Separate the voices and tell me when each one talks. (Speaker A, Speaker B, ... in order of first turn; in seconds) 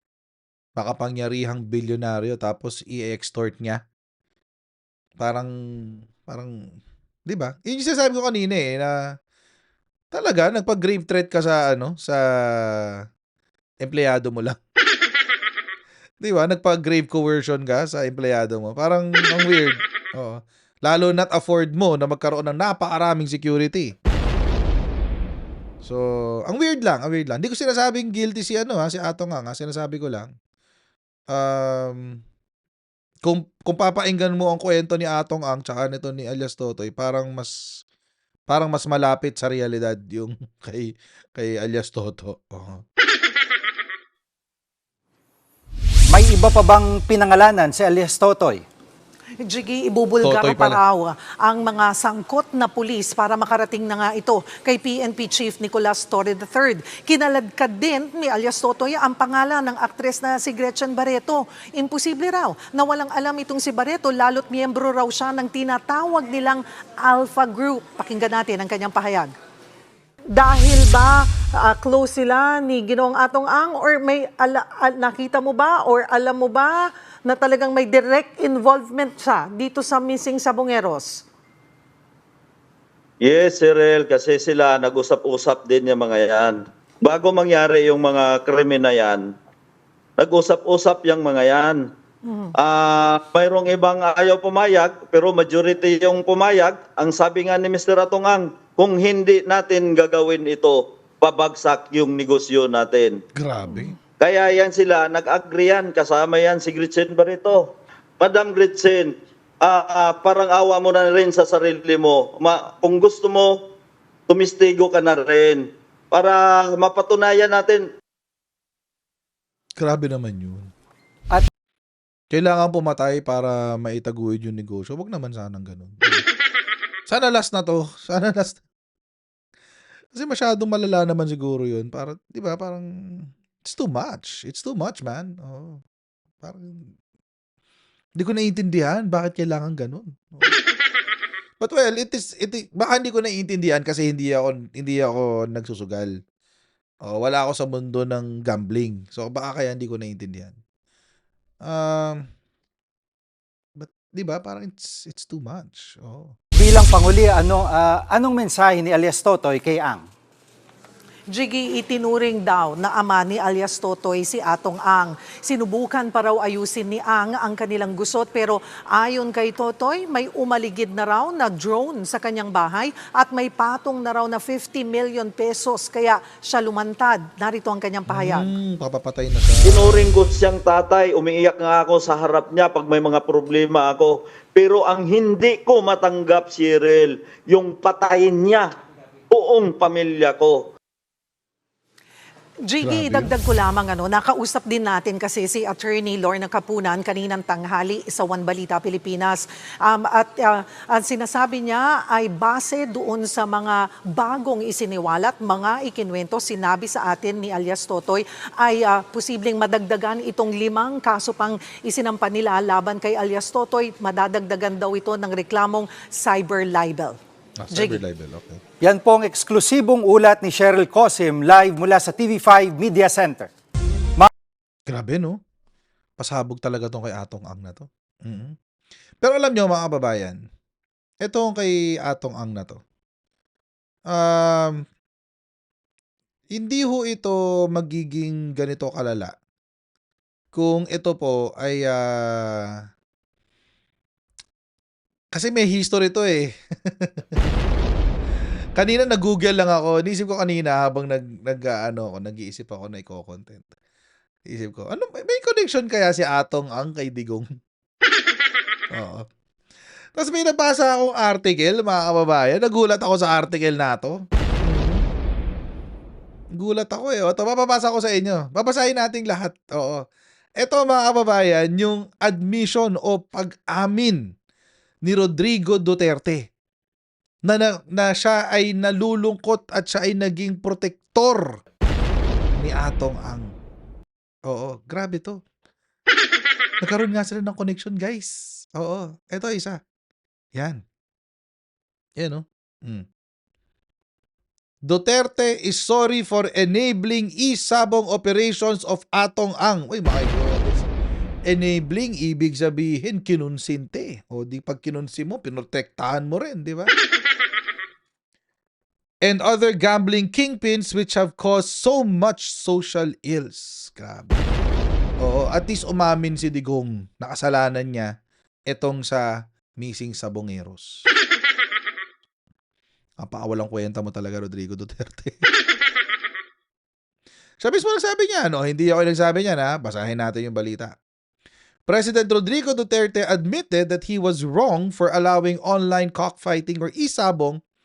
Speaker A: 0.8-3.8, 5.2-6.5, 7.3-9.0, 10.1-12.9, 13.8-14.6, 16.2-24.4, 25.8-30.3, 31.3-32.2, 33.2-37.5, 38.5-42.8, 50.2-50.8, 103.3-103.9, 119.8-120.7, 122.3-126.2, 127.1-128.6, 130.1-135.8, 136.4-136.9, 138.2-140.6, 141.6-146.1, 147.1-150.6, 151.6-152.2, 153.8-156.3, 178.1-180.1, 192.8-193.3, 217.6-218.6, 224.9-225.4, 226.2-228.6, 229.2-230.4, 231.2-232.8, 234.1-234.8, 236.5-239.3, 240.5-242.7, 245.3-247.5, 248.8-253.7, 254.5-257.5, 258.9-259.2, 260.1-265.0, 266.6-270.0, 270.6-274.2, 275.1-276.5, 277.5-281.6, 282.6-283.5, 284.5-285.4, 286.8-289.8, 290.5-290.8, 292.2-293.0, 294.9-300.9, 301.5-306.9, 309.2-314.4, 315.2-318.1, 318.7-319.2, 319.8-321.0, 323.2-325.4, 327.6-331.0, 331.9-337.6
Speaker B: 46.1-48.6, 156.5-160.1, 218.8-223.5
Speaker C: 49.4-69.3, 70.3-81.2, 92.2-92.5, 161.3-178.5, 192.7-217.2, 217.7-218.0
Speaker D: 83.2-89.3, 90.2-91.8, 92.6-103.2, 104.2-107.7, 108.2-113.6, 114.3-117.8, 179.6-188.7, 189.3-190.7